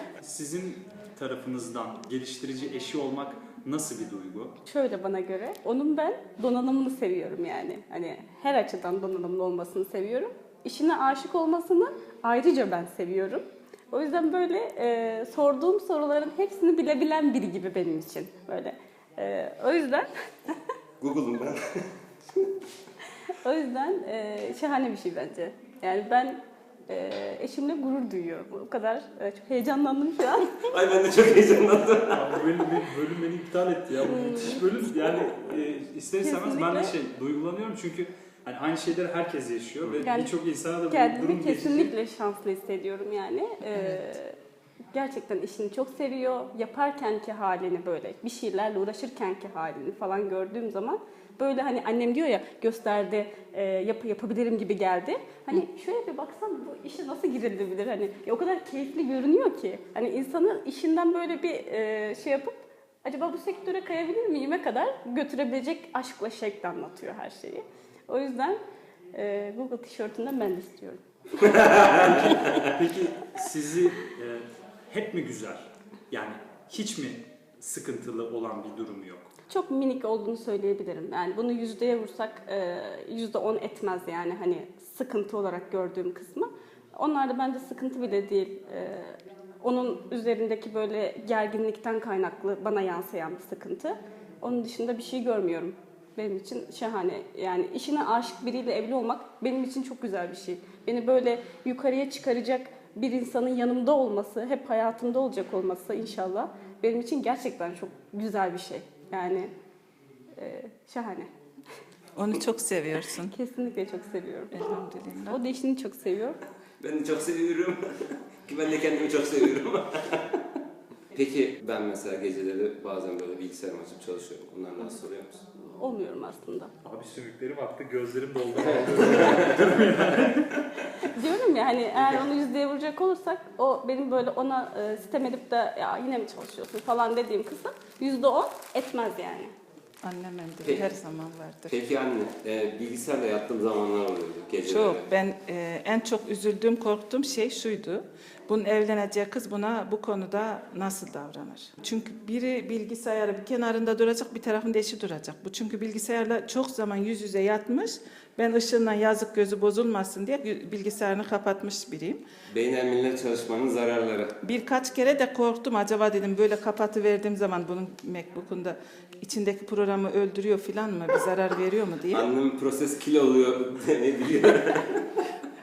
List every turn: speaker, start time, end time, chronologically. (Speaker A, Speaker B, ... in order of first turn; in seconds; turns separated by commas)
Speaker A: 0.2-4.5, Speaker B: 4.7-20.5, Speaker C: 21.0-21.6, Speaker B: 23.3-30.6, Speaker C: 30.6-32.3, Speaker A: 32.1-41.9, Speaker B: 34.0-34.6, Speaker B: 36.2-36.9, Speaker B: 40.0-40.3, Speaker B: 40.9-44.3, Speaker B: 44.9-68.6, Speaker B: 69.1-72.5, Speaker A: 71.5-79.3, Speaker C: 71.7-72.0, Speaker B: 79.5-109.5, Speaker B: 110.4-111.3, Speaker D: 112.2-113.3, Speaker B: 113.1-114.7, Speaker D: 114.5-115.4, Speaker B: 115.3-116.4, Speaker C: 116.8-120.4, Speaker C: 121.1-125.4, Speaker B: 125.7-126.7, Speaker A: 126.8-130.6, Speaker C: 128.6-130.1, Speaker B: 131.0-139.5, Speaker D: 140.0-141.8, Speaker C: 141.7-145.1, Speaker D: 144.6-162.2, Speaker C: 162.5-164.4, Speaker D: 164.4-172.2, Speaker C: 172.1-175.0